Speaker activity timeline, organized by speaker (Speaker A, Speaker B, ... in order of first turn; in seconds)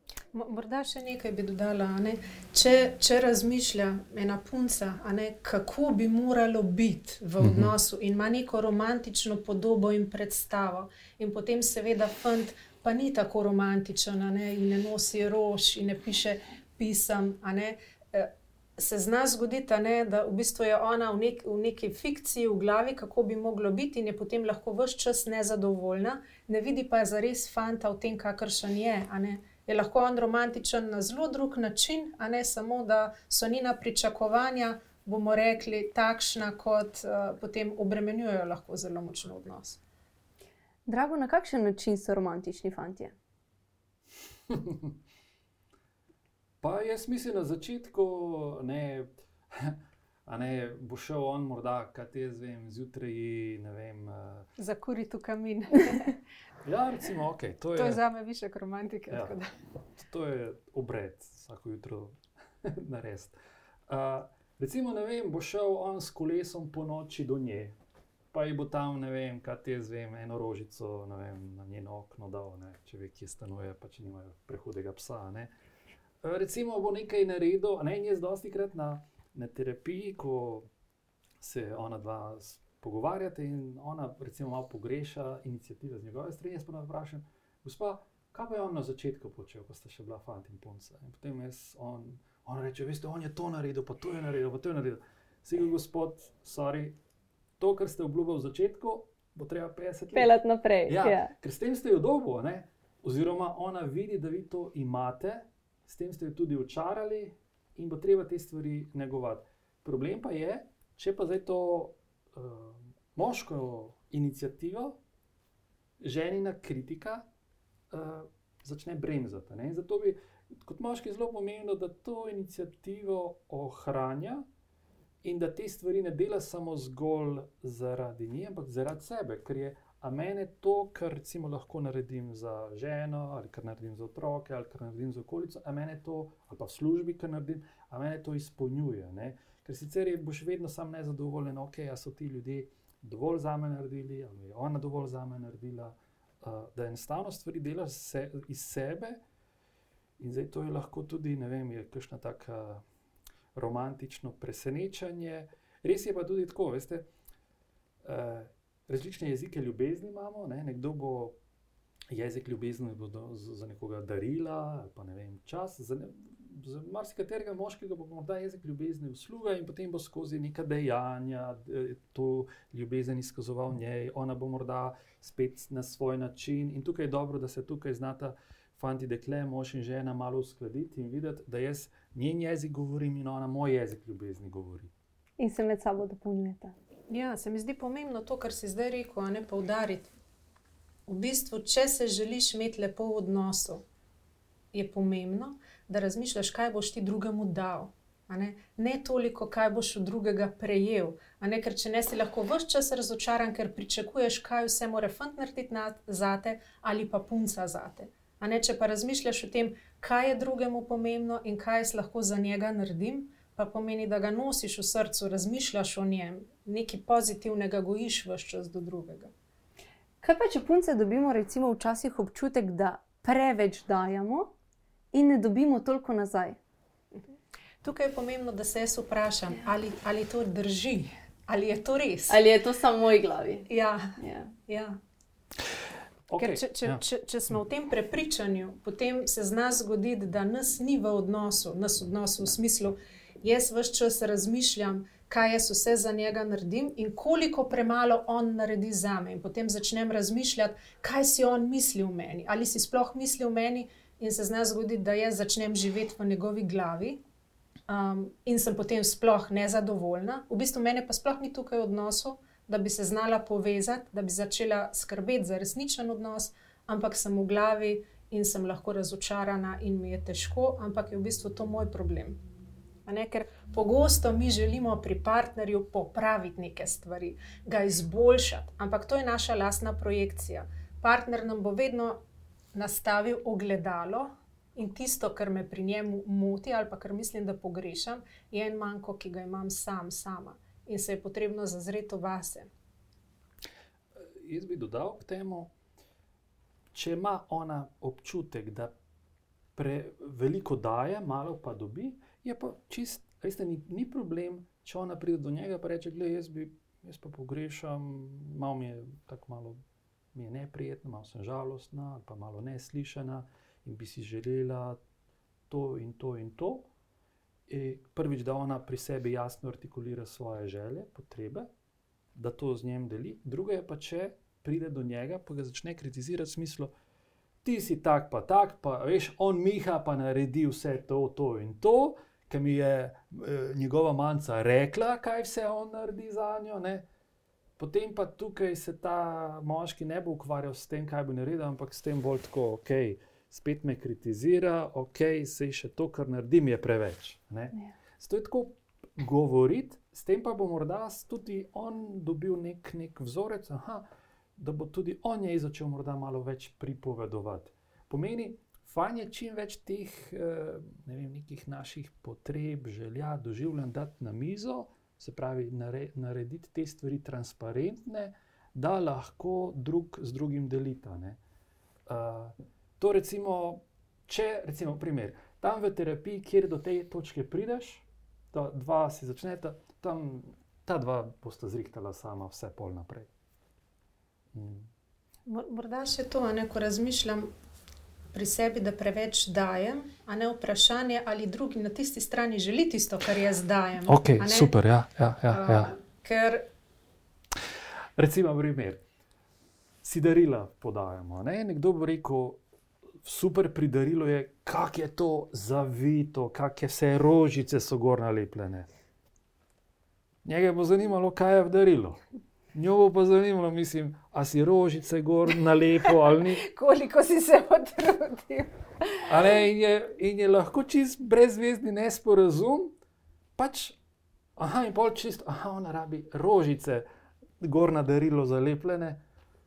Speaker A: 0.3-39.8, 54.6-56.2, 57.7-59.5, 187.1-190.1, 191.1-193.8, 194.7-219.3, 227.8-232.4, 233.7-235.0, 236.4-257.2, 257.9-272.4, 273.1-282.2, 282.7-292.7, 385.4-387.5, 388.3-394.7, 395.5-396.7, 416.6-419.4
Speaker B: 7.4-7.7, 44.5-44.9, 46.6-54.5, 56.6-58.0, 59.1-59.3, 60.0-63.4, 63.9-67.7, 68.3-75.5, 76.2-80.7, 81.4-97.0, 97.6-100.3, 100.9-115.0, 116.0-117.3, 117.9-124.5, 125.2-149.2, 150.2-152.8, 153.5-157.1, 158.0-161.4, 162.1-184.9, 236.3-237.0, 294.2-295.7, 296.9-298.9, 299.7-309.8, 310.3-315.0, 315.7-316.9, 317.7-321.7, 322.3-326.9, 327.6-337.1, 337.8-354.0, 354.6-371.4, 372.1-383.3, 384.5-384.9, 394.1-395.9, 398.2-399.0, 400.0-402.6, 403.2-408.9, 410.4-412.2, 412.7-416.7, 419.3-422.9, 423.6-424.0, 424.6-427.1, 427.6-429.2
Speaker C: 40.9-43.1, 100.1-101.3, 185.4-186.7, 220.2-224.5, 225.1-226.6, 232.3-233.7, 234.2-234.5